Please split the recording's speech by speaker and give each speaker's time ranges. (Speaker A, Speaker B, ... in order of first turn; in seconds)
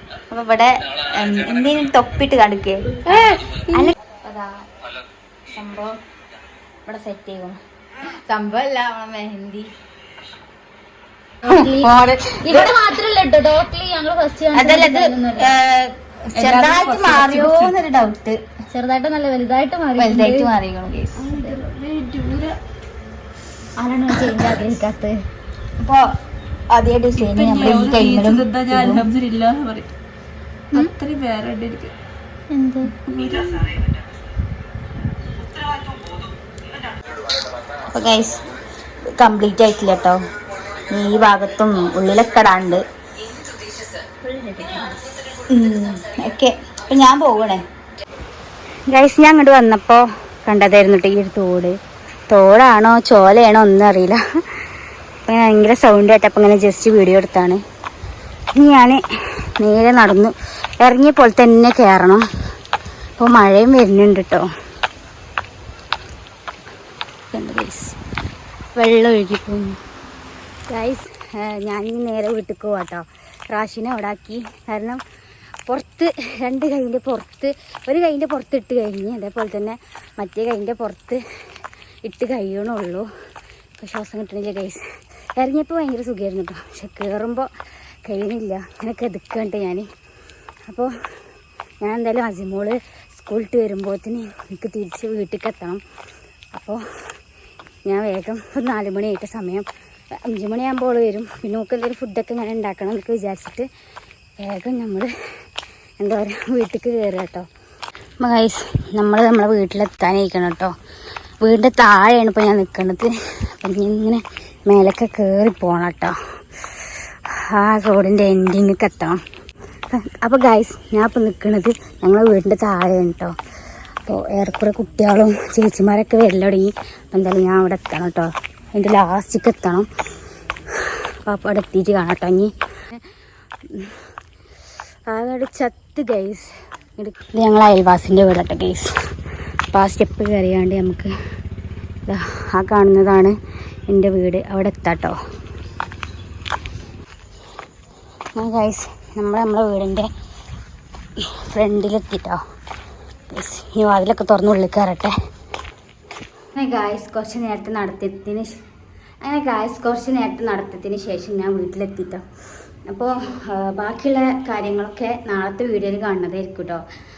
Speaker A: 0.3-4.7, 5.5-6.0, 6.8-7.6, 8.3-9.7, 11.4-12.8, 14.5-18.4, 20.0-21.3, 25.8-26.1, 26.7-29.1, 37.9-38.4, 39.1-40.2, 40.9-42.8, 45.5-47.6, 48.9-51.8, 52.3-54.2, 55.2-57.6, 58.5-59.0, 59.6-62.2, 63.2-64.5, 67.3-68.0, 68.8-69.8, 70.7-75.0, 75.7-81.2, 82.0-83.0, 83.8-84.8, 85.4-87.5, 88.0-89.9, 91.8-95.8, 96.5-96.8, 97.8-99.7, 100.3-103.7, 104.4-105.1, 106.0-107.5, 108.2-110.7, 111.4-116.1, 117.3-119.2, 119.9-123.3, 124.0-129.9, 130.8-132.5, 135.1-138.9, 139.7-141.1, 142.1-143.3, 143.9-145.2, 148.3-150.1, 151.3-152.4, 153.3-155.1, 156.6-158.6, 159.2-162.2, 162.9-166.8
Speaker B: 3.1-3.9, 16.3-17.8, 21.2-22.6, 27.1-29.9, 30.7-31.9, 33.0-33.8
Speaker C: 11.4-15.5, 18.7-20.5, 23.8-25.2, 32.5-32.9, 44.2-45.0